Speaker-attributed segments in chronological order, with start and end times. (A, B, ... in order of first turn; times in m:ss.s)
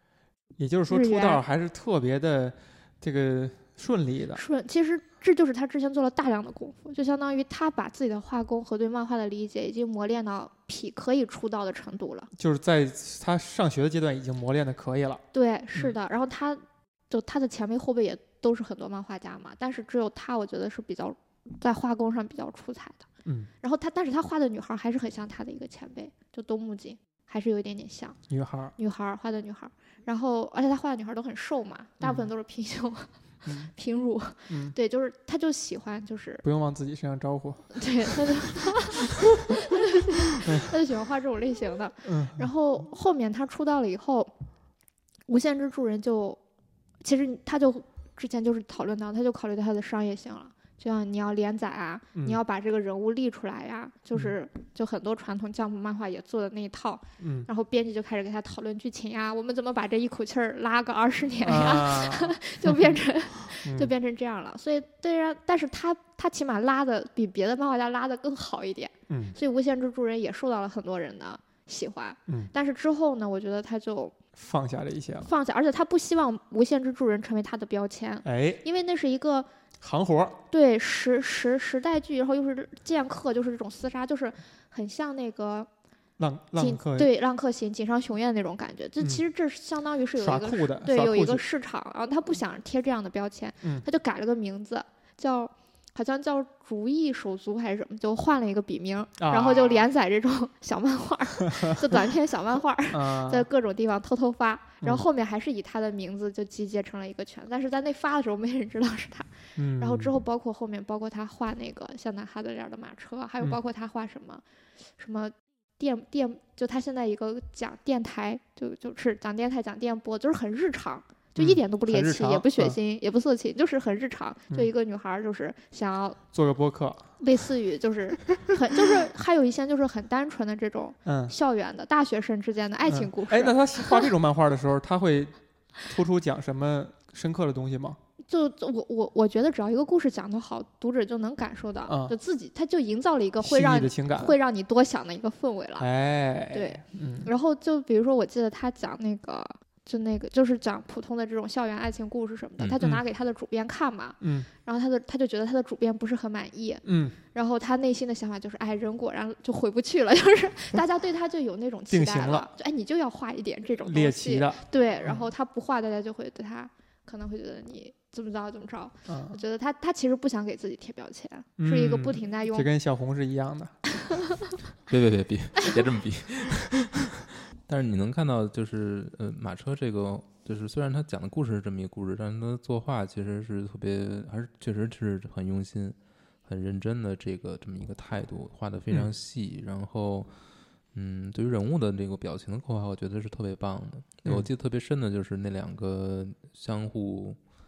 0:00.6-0:04.4 A
0:00.9-0:01.4 B
0:04.3-0:12.3 B
0:12.4-0:15.2 A
0:15.3-0:23.0 B
0:23.6-0:28.2 B
0:28.3-0:28.7 A
0:28.8-0:36.4 B
0:32.0-0:32.3 A
0:33.4-0:33.7 A
0:34.5-0:34.7 A
0:36.4-0:38.1 A
0:37.7-0:44.3 B
0:40.4-0:40.7 A
0:42.0-0:42.5 A
0:45.3-0:46.4 B
0:47.0-1:14.1 B
0:52.1-0:52.4 A
0:57.2-0:57.5 A
1:01.4-1:02.9 A
1:03.5-1:03.9 A
1:09.1-1:09.4 A
1:14.4-1:15.3 A
1:15.2-1:19.5 B
1:18.2-1:18.6 A
1:19.8-1:20.4 A
1:20.5-1:25.7 B
1:26.2-1:27.1 A
1:26.6-1:54.4 B
1:29.0-1:29.2 A
1:30.2-1:31.4 A
1:39.2-1:39.8 A
1:42.9-1:43.4 A
1:49.6-1:50.2 A
1:55.0-2:06.2 B
2:01.4-2:02.8 A
2:06.3-2:07.1 A
2:07.2-2:14.1 B
2:11.0-2:11.3 A
2:12.8-2:15.3 A
2:15.8-2:18.0 A
2:18.3-2:25.9 B
2:21.9-2:22.1 A
2:23.4-2:24.4 A
2:25.8-2:27.3 A
2:26.5-2:52.7 B
2:34.2-2:34.5 A
2:36.8-2:37.2 A
2:41.9-2:42.5 A
2:43.8-2:45.2 A
2:49.1-2:49.4 A
2:51.6-2:53.8 A
2:54.9-3:10.3 C
3:10.9-3:17.4 C